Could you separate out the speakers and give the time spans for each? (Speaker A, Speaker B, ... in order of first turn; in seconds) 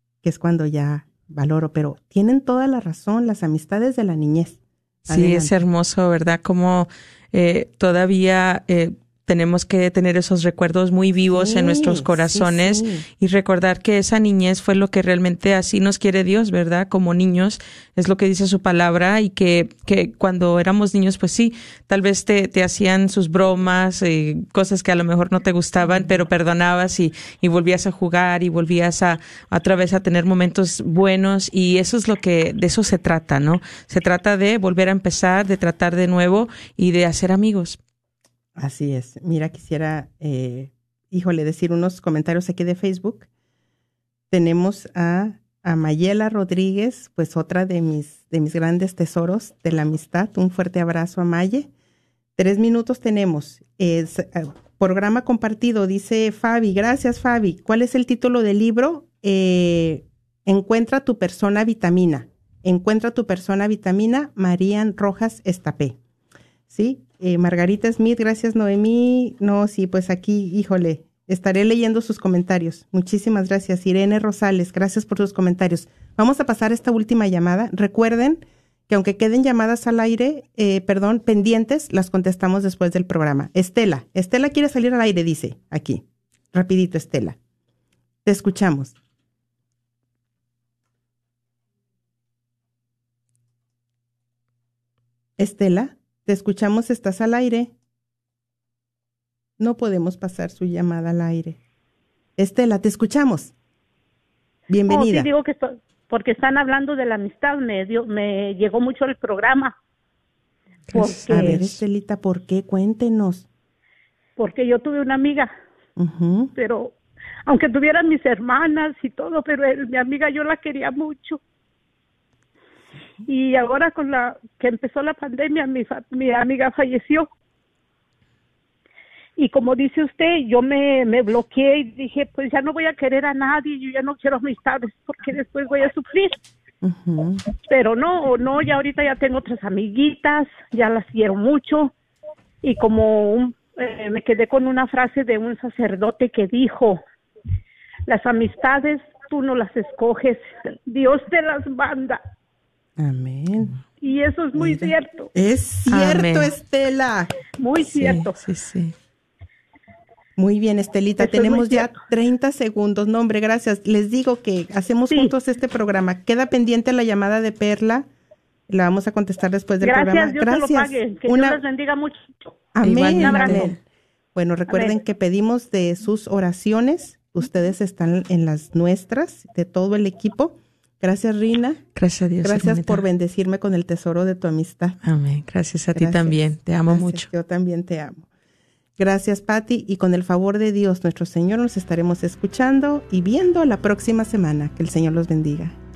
Speaker A: 0.2-5.6, 11.2-13.0, 38.5-43.3, 44.3-51.7, 52.4-66.0, 66.7-87.4, 88.2-88.9, 95.4-97.7, 99.6-101.6, 102.4-103.5, 104.7-105.3, 110.9-113.5, 116.0-116.5, 136.8-137.4, 153.0-153.8, 154.6-157.3, 160.4-168.1, 168.7-171.6, 172.7-173.8, 174.3-181.8, 182.4-185.0, 185.9-188.3, 189.0-195.8
Speaker B: 5.1-37.8, 155.9-156.5, 157.9-158.9, 172.8-173.8, 181.9-183.0, 185.0-187.3
Speaker C: 104.9-109.8, 110.9-111.7, 114.4-115.5, 116.5-117.0, 117.5-121.4, 123.2-127.3, 129.3-136.4, 137.7-141.9, 142.6-147.0, 148.1-152.2, 154.0-155.3, 157.6-158.4, 161.2-162.0, 169.8-173.7, 174.7-174.9